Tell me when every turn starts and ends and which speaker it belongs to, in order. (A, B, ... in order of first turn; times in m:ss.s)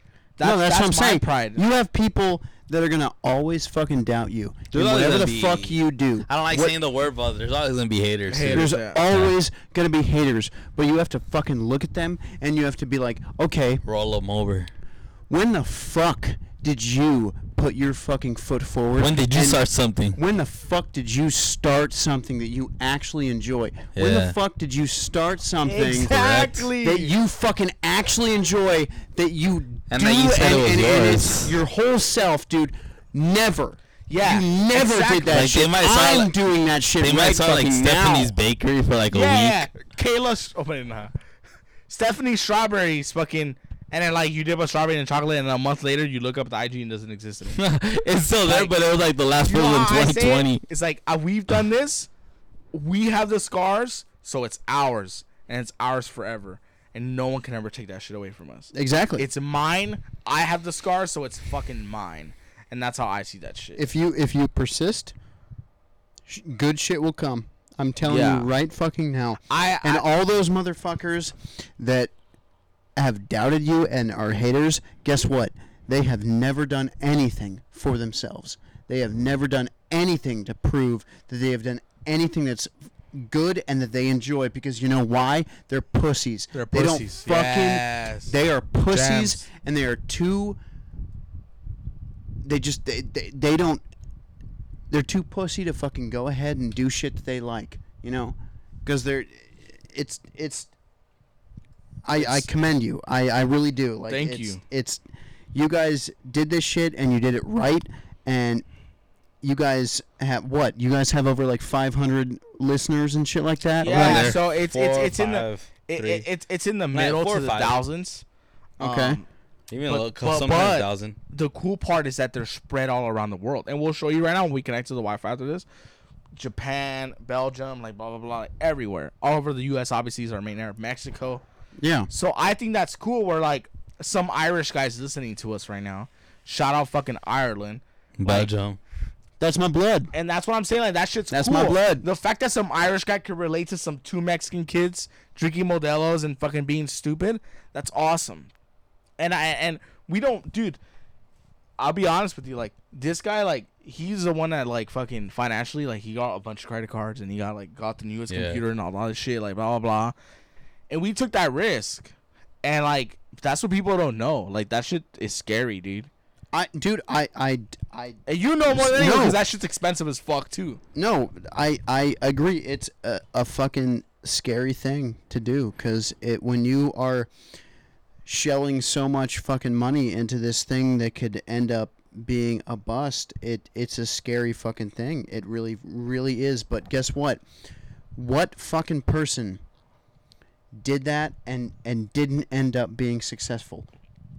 0:00.4-0:01.6 A
0:00.4-0:06.8 B
0:04.7-0:09.3 C
0:08.3-0:09.0 A
0:08.5-0:13.8 B
0:13.8-0:14.7 C
0:15.3-0:19.6 B
0:19.0-0:20.2 C
0:20.1-0:26.3 B
0:23.9-0:24.3 C
0:25.6-0:27.1 A
0:26.1-0:26.7 C
0:26.8-0:38.4 B
0:29.9-0:31.6 C
0:34.1-0:35.5 A
0:35.3-0:36.3 C
0:37.0-0:39.6 C
0:39.1-0:41.1 A
0:41.9-0:47.6 A
0:47.6-0:50.6 C
0:48.4-0:48.7 A
0:49.4-0:52.1 A
0:52.7-1:03.8 A
0:58.7-0:59.2 B
1:03.8-1:05.1 B
1:06.3-1:12.1 B
1:08.1-1:08.5 A
1:09.5-1:10.0 A
1:13.0-1:30.6 B
1:26.5-1:28.3 A
1:28.9-1:29.4 A
1:32.4-1:33.8 B
1:34.9-1:40.7 B
1:42.0-1:45.0 B
1:42.1-1:42.5 A
1:44.1-1:44.6 A
1:45.5-1:48.6 B
1:49.4-1:54.4 B
1:53.8-1:58.2 A
1:53.8-1:56.3 C
1:56.9-1:57.8 C
1:58.8-1:59.2 B
1:58.8-1:59.3 A
1:59.7-2:01.2 C
1:59.8-2:05.6 A
2:06.4-2:11.4 A
2:11.8-2:12.1 B
2:12.1-2:18.5 A
2:18.2-2:18.8 C
2:19.4-2:20.1 B
2:20.1-2:28.5 A
2:21.3-2:22.1 B
2:29.2-2:30.8 A
2:31.8-2:40.1 A
2:38.3-2:38.6 C
2:40.9-2:46.1 A
2:46.5-2:49.4 B
2:48.3-2:50.8 A
2:50.9-2:57.3 B
2:58.3-3:07.4 B
3:08.1-3:09.6 B
3:10.7-3:13.9 B